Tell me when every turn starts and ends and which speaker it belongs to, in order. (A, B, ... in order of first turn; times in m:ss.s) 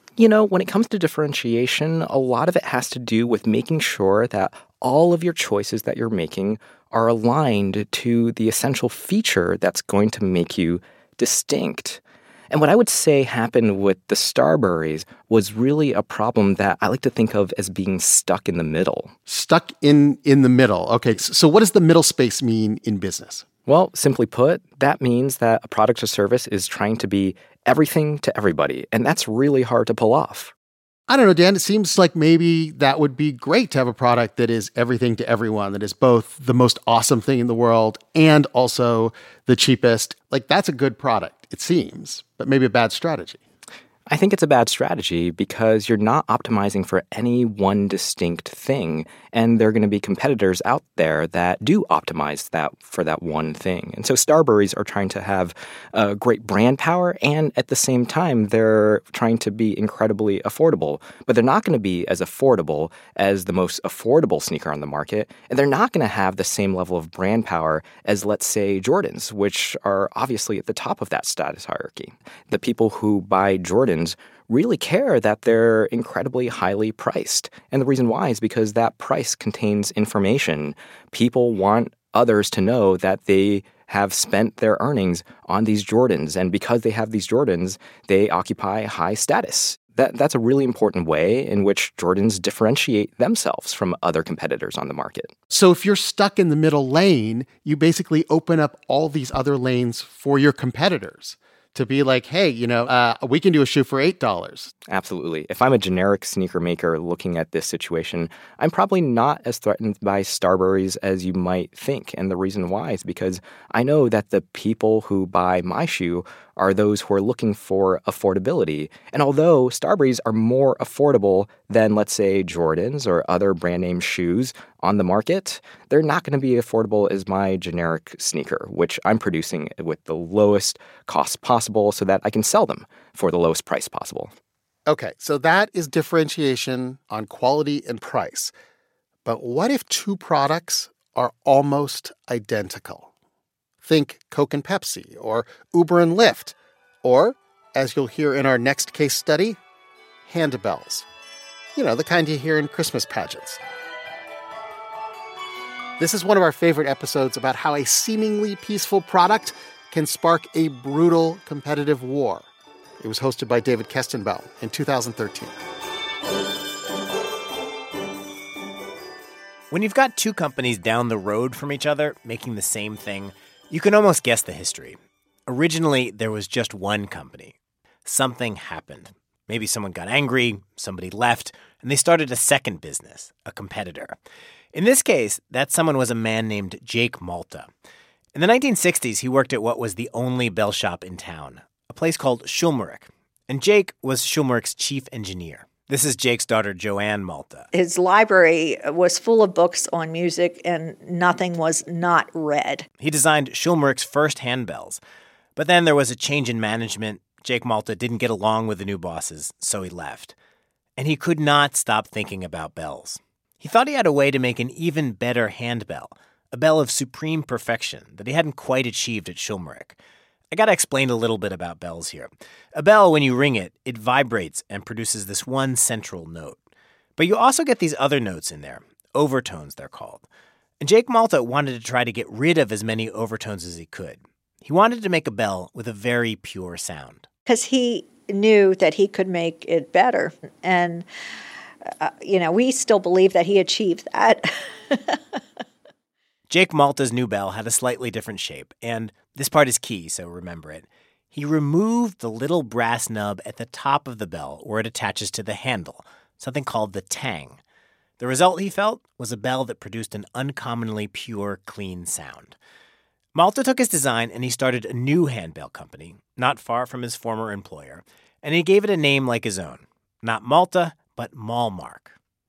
0:00.2-0:19.1 A
0:19.3-0:23.5 B
0:23.7-0:30.5 A
0:31.1-0:43.4 B
0:44.1-1:35.3 A
1:35.5-1:44.7 B
1:44.9-2:14.3 A
2:14.9-2:18.5 B
2:19.2-2:23.1 B
2:23.8-2:29.6 B
2:30.2-2:31.1 B
2:31.8-2:33.6 B
2:36.0-2:42.5 B
2:43.0-2:45.6 B
2:49.7-2:57.6 C
2:58.1-3:04.2 C
3:04.7-3:07.7 C
3:08.4-3:17.7 C
3:17.7-3:22.9 D
3:23.0-3:25.0 C
3:25.6-3:30.3 C
3:31.0-3:40.0 C
3:40.5-3:46.6 C
3:47.2-3:50.2 C
3:50.8-3:57.3 C
3:57.5-4:01.1 D
4:01.9-4:05.2 D
4:06.5-4:17.6 C
4:18.2-4:22.6 C
4:23.3-4:32.2 C